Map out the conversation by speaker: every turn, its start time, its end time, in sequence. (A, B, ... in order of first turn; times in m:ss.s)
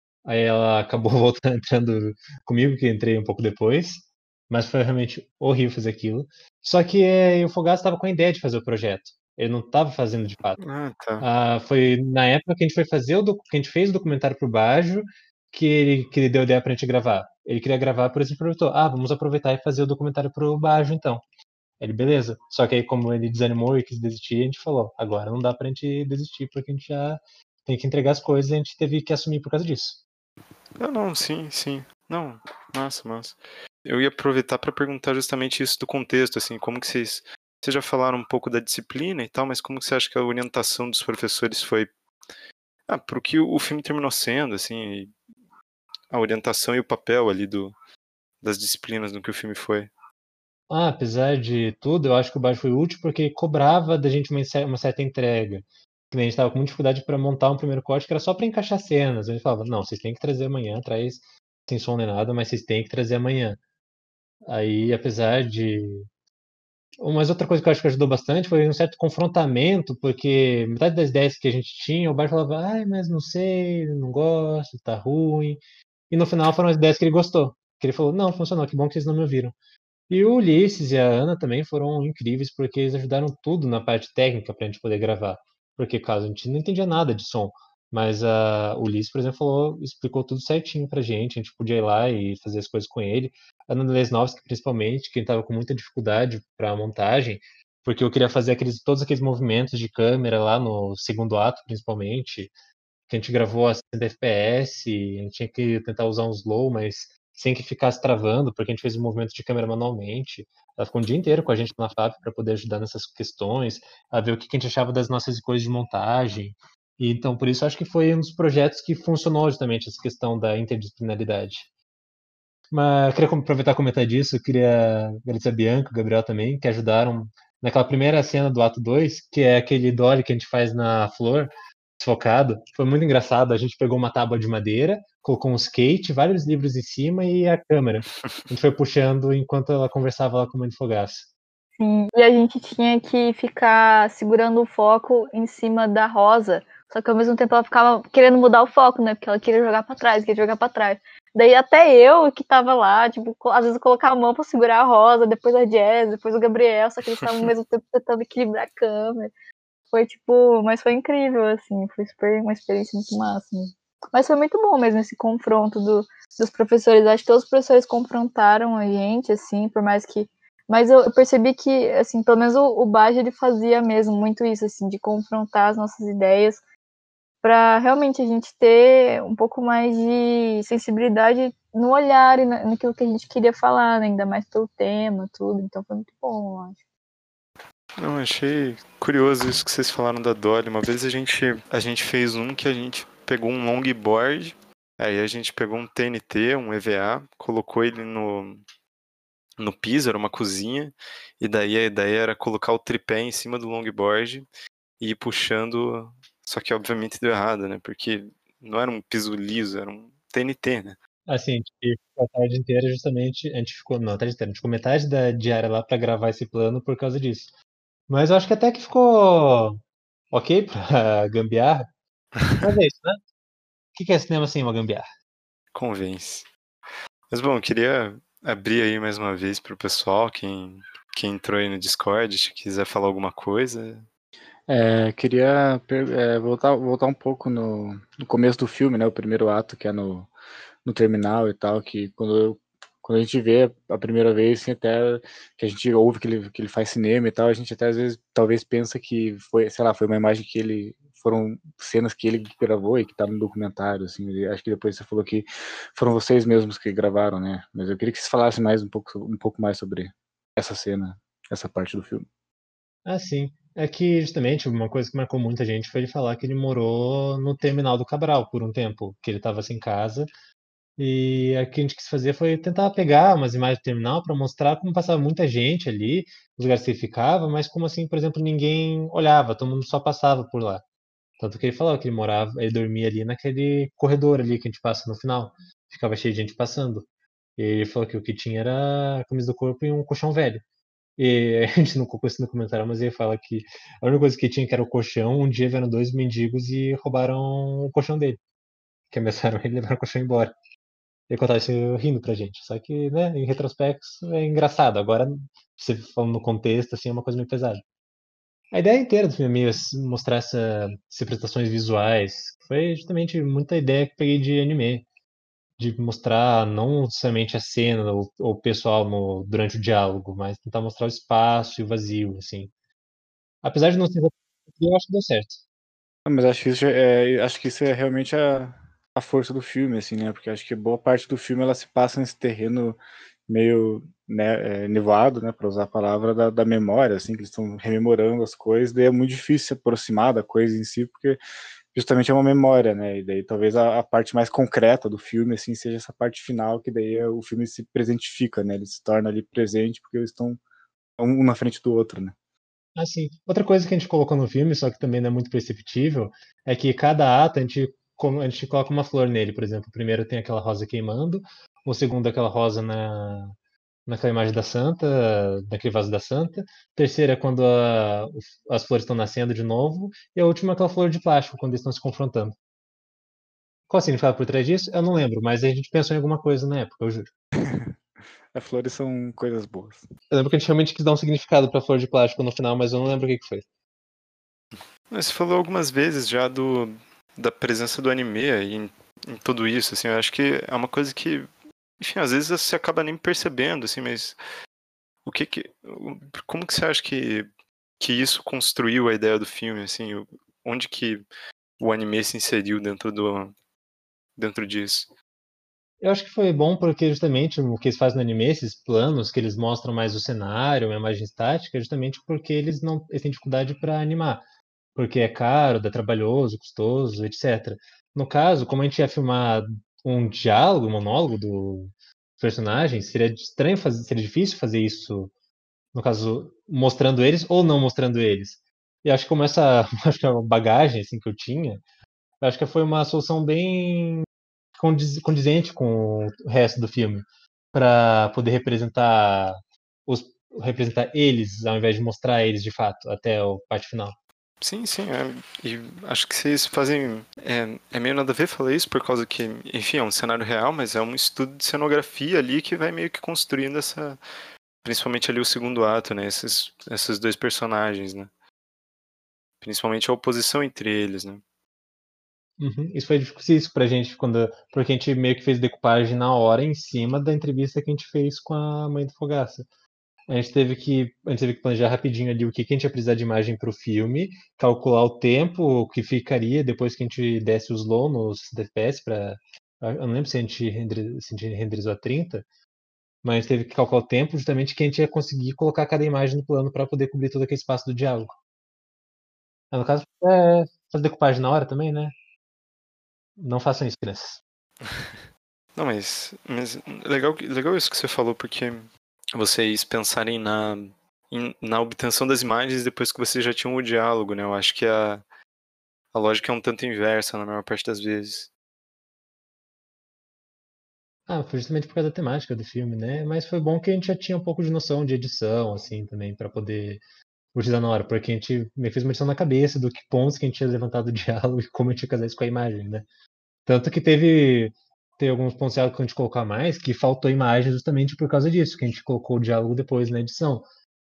0:00.2-0:10.6 A
0:10.6-0:11.3 B
0:11.2-0:21.2 A
0:21.8-0:30.0 A
0:30.8-0:41.9 B
0:42.9-0:45.1 B
0:46.1-0:47.8 B
0:48.4-0:49.9 B
0:50.7-1:03.6 A
1:04.5-1:06.1 A
1:07.0-1:19.6 A
1:20.1-1:42.5 A
1:43.1-2:01.7 A
2:02.7-2:21.3 A
2:21.8-2:39.3 C
2:39.9-2:56.6 C
2:57.4-3:06.8 C
3:08.0-3:18.6 B
3:19.6-3:24.5 B
3:25.0-3:31.0 B
3:31.3-3:37.5 A
3:38.1-3:39.8 A
3:40.3-3:41.9 A
3:42.4-3:42.6 B
3:42.6-3:43.2 A
3:44.0-3:45.1 A
3:45.7-3:46.5 B
3:47.3-3:54.1 B
3:54.7-4:00.3 D
4:00.8-4:22.3 D
4:23.0-4:30.3 A
4:31.0-4:40.8 A
4:41.4-4:50.6 A
4:51.2-4:58.4 A
4:59.1-5:00.5 A
5:01.3-5:07.8 A
5:08.7-5:15.1 A
5:15.8-5:22.7 A
5:23.6-5:25.6 A
5:26.3-5:41.4 D
5:41.9-5:50.6 D
5:51.2-5:52.4 D
5:53.0-6:03.6 A
6:04.1-6:12.6 A
6:13.9-6:17.3 A
6:17.6-6:17.9 D
6:18.5-6:20.0 D
6:20.3-6:23.6 A
6:25.1-6:31.5 B
6:32.0-6:34.4 B
6:35.2-6:37.5 B
6:38.0-6:41.2 B
6:41.8-6:43.6 B
6:44.4-6:45.1 B
6:46.0-6:54.4 A
6:55.0-7:05.3 A
7:05.9-7:11.8 A
7:12.4-7:24.2 A
7:24.6-7:34.2 B
7:34.8-7:38.3 B
7:39.6-7:41.4 B
7:42.6-7:49.7 A
7:50.3-8:02.5 A
8:03.2-8:08.4 A
8:09.7-8:12.2 A
8:13.4-8:14.4 A
8:14.8-8:15.1 B
8:15.8-8:25.2 B
8:26.1-8:28.5 B
8:31.3-8:37.0 A
8:37.5-8:43.1 A
8:43.7-8:50.6 A